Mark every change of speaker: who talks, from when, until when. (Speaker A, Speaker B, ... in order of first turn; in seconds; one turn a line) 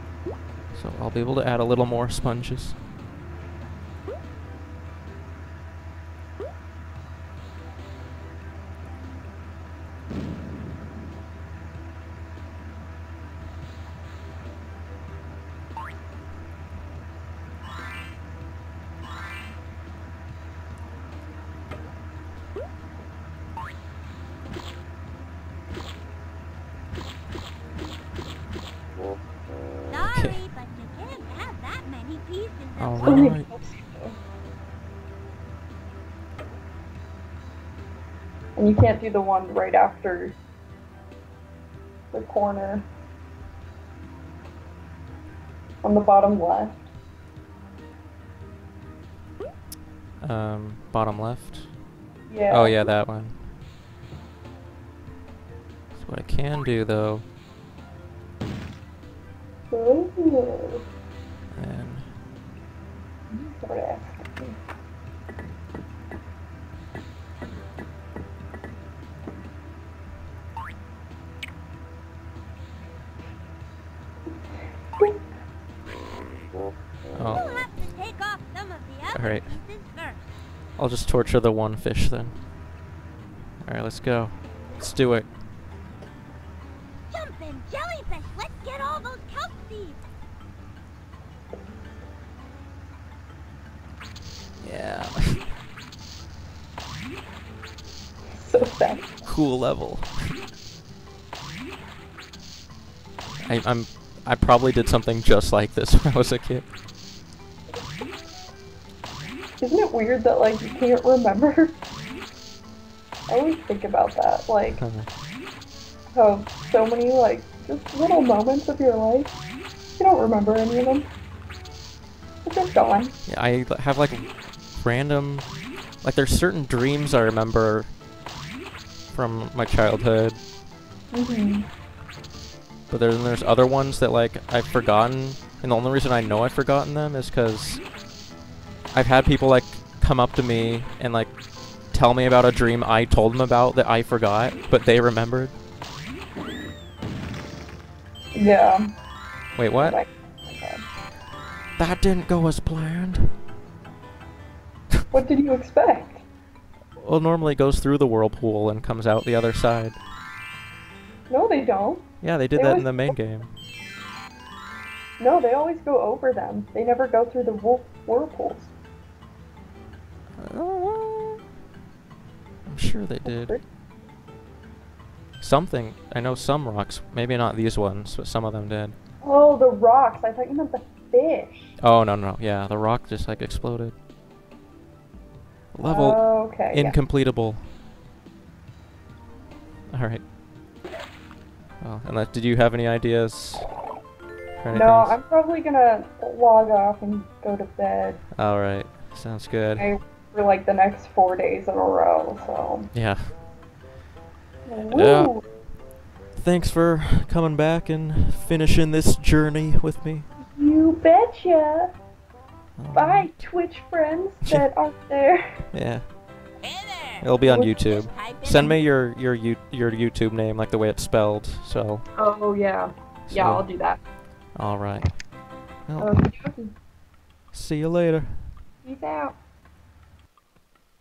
Speaker A: 0.7-2.8
Speaker B: 29.9-33.4
Speaker A: 30.0-30.4
Speaker A: 32.8-33.5
Speaker C: 33.0-34.2
Speaker C: 38.5-40.4
Speaker C: 42.1-42.8
Speaker C: 45.8-46.9
Speaker A: 50.2-51.8
Speaker C: 52.3-52.9
Speaker A: 52.5-53.5
Speaker A: 55.9-57.2
Speaker C: 59.7-60.8
Speaker A: 61.5-62.1
Speaker C: 63.3-64.6
Speaker C: 75.0-75.2
Speaker A: 77.1-77.6
Speaker B: 77.2-80.3
Speaker A: 79.1-79.5
Speaker A: 80.8-82.4
Speaker A: 83.6-85.3
Speaker B: 87.1-90.0
Speaker A: 94.6-95.5
Speaker C: 98.3-99.2
Speaker A: 99.2-100.4
Speaker A: 103.4-106.7
Speaker C: 109.6-111.7
Speaker C: 113.3-114.8
Speaker A: 114.7-115.1
Speaker C: 116.1-119.4
Speaker C: 120.0-121.1
Speaker C: 122.4-123.1
Speaker A: 123.2-128.0
Speaker A: 129.1-130.4
Speaker C: 131.1-131.7
Speaker A: 132.9-137.9
Speaker A: 138.9-145.6
Speaker C: 148.3-148.9
Speaker A: 149.5-150.0
Speaker C: 149.8-150.8
Speaker A: 151.8-153.4
Speaker C: 155.1-156.2
Speaker A: 157.0-160.0
Speaker C: 161.3-163.1
Speaker A: 162.2-163.5
Speaker C: 165.2-168.7
Speaker A: 170.4-171.4
Speaker A: 172.6-173.6
Speaker C: 173.2-173.6
Speaker A: 175.4-178.9
Speaker C: 179.2-181.8
Speaker A: 181.8-183.9
Speaker A: 185.7-187.7
Speaker C: 185.8-187.0
Speaker A: 189.9-190.2
Speaker A: 191.8-193.8
Speaker A: 194.6-195.2
Speaker C: 194.7-198.2
Speaker A: 198.3-199.9
Speaker C: 199.8-202.9
Speaker A: 202.9-203.4
Speaker C: 204.7-205.4
Speaker A: 204.9-205.5
Speaker A: 206.3-210.3
Speaker C: 210.4-211.9
Speaker A: 212.8-213.4
Speaker C: 212.9-215.7
Speaker A: 215.7-216.1
Speaker B: 216.6-217.3
Speaker A: 217.2-222.0
Speaker C: 217.4-217.8
Speaker B: 217.8-218.7
Speaker C: 222.2-224.0
Speaker A: 223.3-223.7
Speaker A: 224.5-225.3
Speaker A: 225.8-226.3
Speaker C: 226.0-226.7
Speaker A: 227.5-228.6
Speaker C: 228.8-229.4